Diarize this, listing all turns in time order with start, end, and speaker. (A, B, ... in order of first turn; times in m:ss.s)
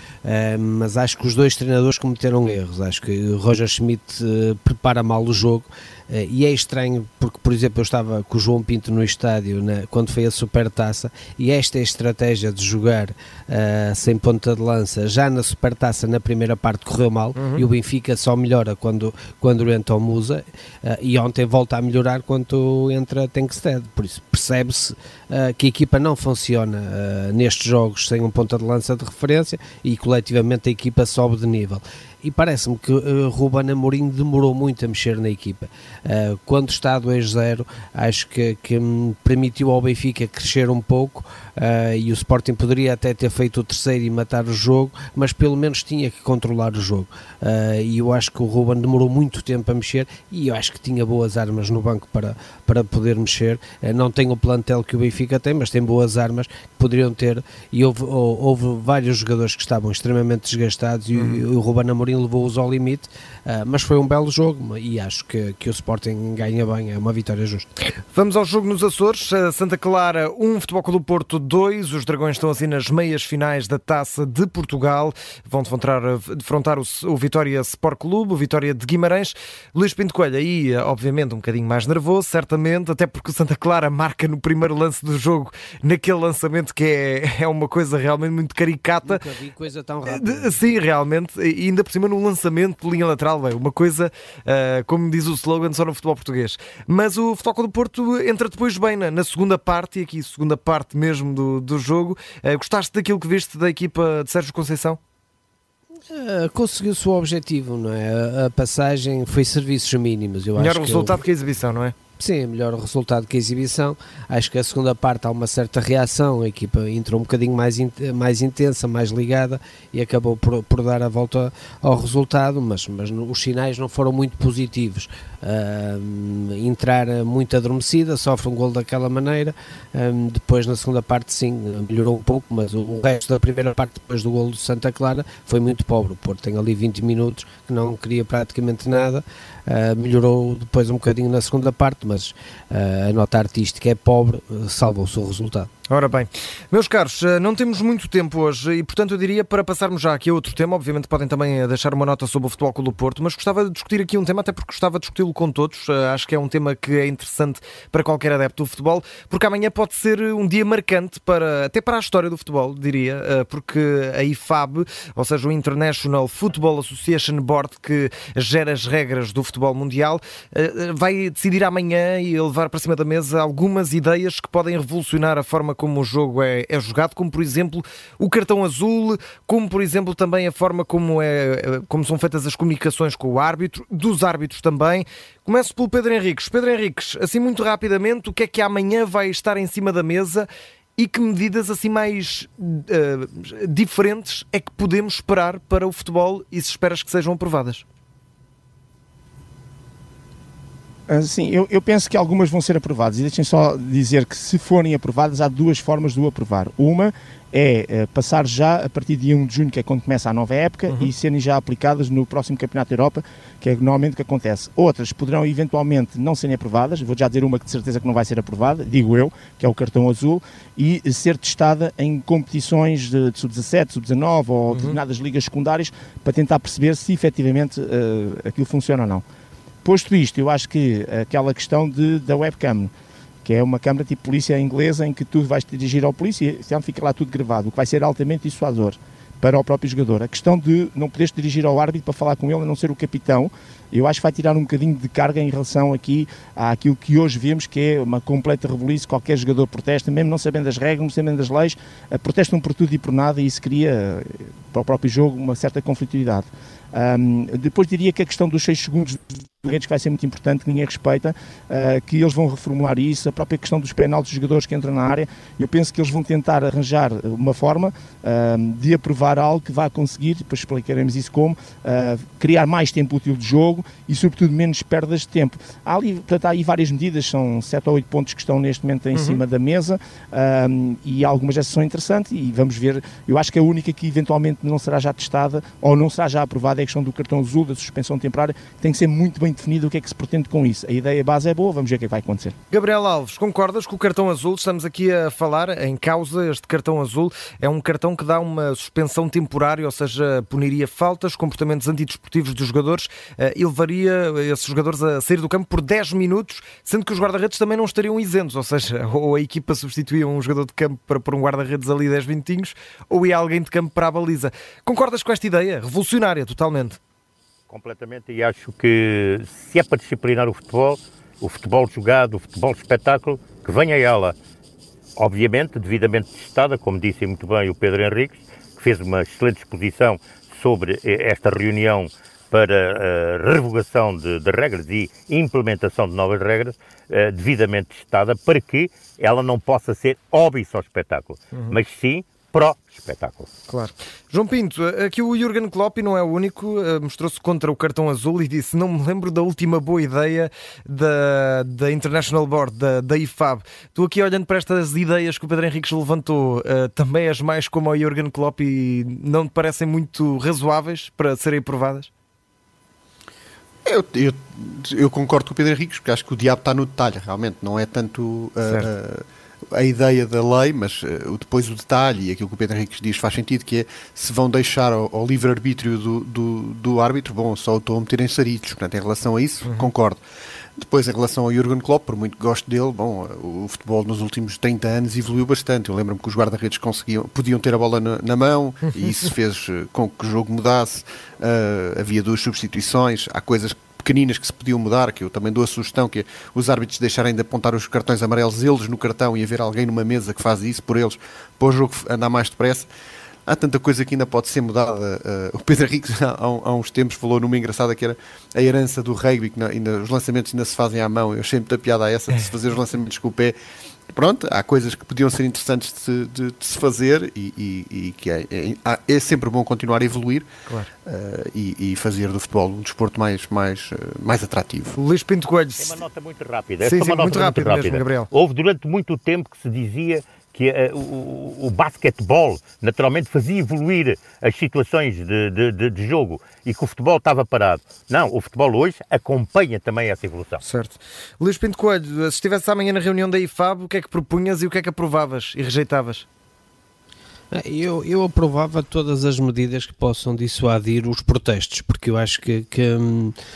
0:00.2-1:07.7 A
0:17.3-0:17.7 B
1:01.1-1:01.5 B
1:07.9-1:29.3 B
1:29.0-1:30.7 A
1:30.0-1:45.0 B
1:46.1-1:51.2 A
1:50.6-1:52.0 B
1:52.2-2:25.7 A
2:25.9-3:17.9 B
3:21.1-3:49.2 C
3:44.7-3:45.0 B
3:49.8-3:52.9 C
3:53.4-4:52.6 C
4:39.1-4:39.4 B
4:52.7-5:17.0 B
5:17.7-5:24.4 D
5:25.2-5:43.5 D
5:41.5-5:41.8 B
5:43.7-6:02.1 B
6:03.8-6:20.2 E
6:19.6-6:19.9 B
6:20.8-6:42.9 E
6:28.9-6:29.3 B
6:43.5-6:53.6 E
6:54.1-7:00.5 E
7:00.7-7:00.9 B
7:01.1-7:05.0 E
7:04.9-7:06.0 B
7:05.8-7:20.6 D
7:06.8-7:08.3 B
7:20.6-7:26.3 B
7:27.5-7:33.4 A